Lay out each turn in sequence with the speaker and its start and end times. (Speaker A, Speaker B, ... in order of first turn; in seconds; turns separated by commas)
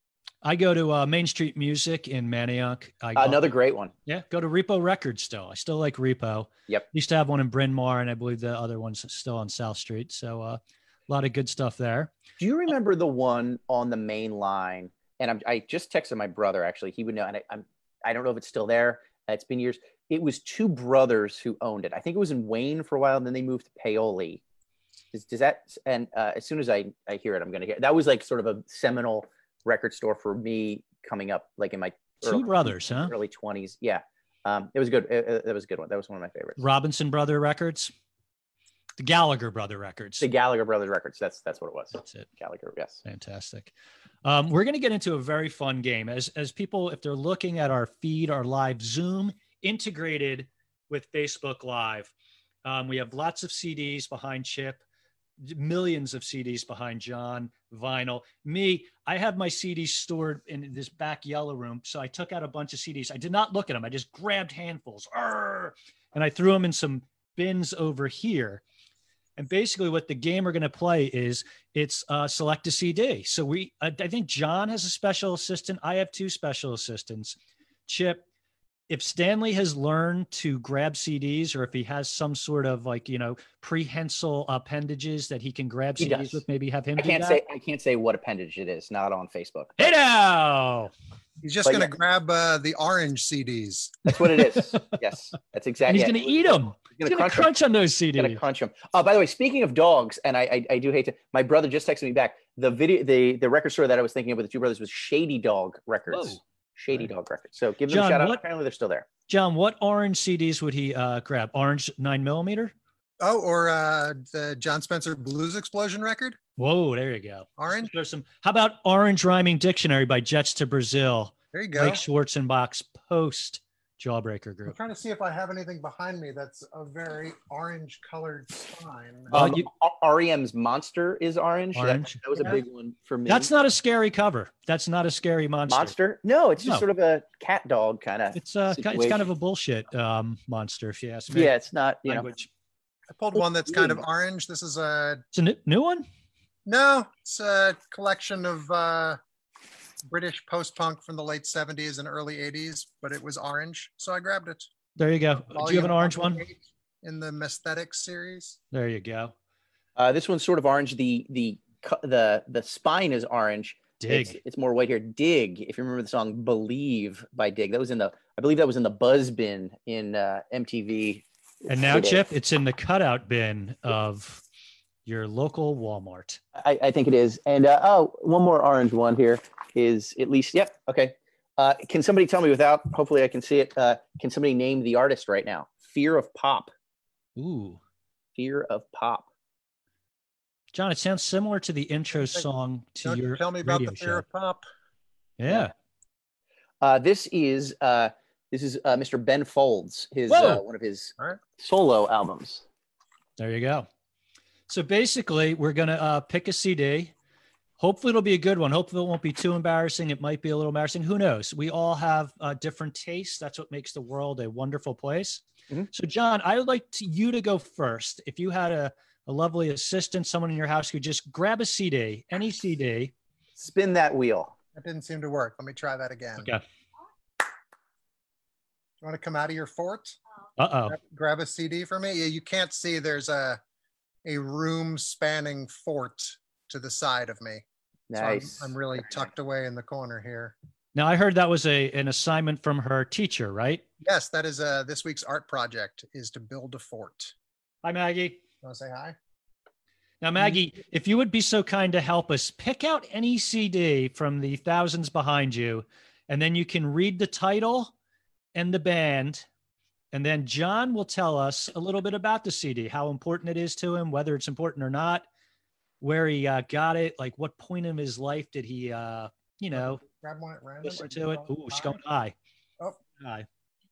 Speaker A: 0.4-3.5, Speaker B: 3.1-3.9, Speaker A: 4.0-12.1, Speaker B: 12.4-24.4, Speaker B: 25.1-36.6, Speaker A: 32.2-33.1, Speaker A: 36.6-37.9, Speaker A: 39.0-40.2, Speaker B: 40.2-43.0, Speaker A: 43.0-43.7, Speaker A: 44.2-52.1, Speaker A: 52.6-54.8, Speaker A: 55.4-68.6, Speaker A: 69.4-77.3, Speaker A: 77.9-78.2, Speaker A: 78.9-87.4, Speaker B: 86.0-86.4, Speaker B: 87.0-89.9, Speaker A: 89.8-90.9, Speaker C: 91.4-94.0, Speaker B: 91.6-91.9, Speaker B: 94.0-97.5, Speaker A: 94.7-95.0, Speaker A: 95.8-98.4, Speaker B: 98.2-109.0, Speaker A: 106.1-106.4, Speaker A: 107.9-108.4, Speaker A: 109.3-112.7, Speaker C: 113.2-116.4, Speaker A: 116.6-124.7, Speaker C: 117.6-117.9, Speaker C: 121.5-122.0, Speaker C: 124.7-129.3, Speaker B: 129.3-133.5, Speaker A: 129.3-129.7, Speaker A: 131.7-132.6, Speaker A: 133.3-135.9, Speaker B: 135.7-139.2, Speaker A: 138.3-141.5, Speaker B: 141.3-142.3, Speaker A: 142.0-142.5, Speaker C: 143.1-145.2, Speaker B: 143.7-144.0, Speaker A: 145.3-146.1, Speaker C: 146.7-149.2, Speaker C: 150.0-154.7, Speaker A: 154.9-156.4, Speaker C: 155.5-158.6, Speaker A: 158.7-159.3, Speaker B: 160.0-172.2, Speaker A: 164.0-164.4, Speaker A: 171.7-174.4, Speaker A: 175.1-176.4, Speaker B: 176.6-186.7, Speaker A: 187.4-187.8, Speaker B: 188.4-189.3, Speaker A: 190.7-194.2, Speaker C: 193.0-194.7, Speaker A: 195.4-195.7, Speaker B: 196.8-202.6, Speaker A: 200.3-200.6, Speaker A: 203.4-203.9, Speaker A: 204.7-207.1, Speaker A: 207.8-223.1, Speaker B: 223.6-224.5, Speaker C: 224.7-226.5, Speaker A: 226.4-226.6, Speaker C: 229.0-230.2, Speaker A: 230.6-230.9, Speaker C: 230.9-233.6, Speaker C: 234.2-237.6, Speaker B: 238.1-238.8, Speaker C: 238.1-240.5, Speaker A: 240.9-243.8, Speaker C: 244.0-247.3, Speaker A: 247.8-248.4, Speaker C: 248.6-249.2, Speaker A: 250.2-257.9, Speaker A: 258.5-259.5, Speaker A: 260.1-265.2, Speaker A: 266.0-270.0, Speaker C: 269.7-272.0, Speaker A: 270.8-272.3, Speaker A: 273.2-273.5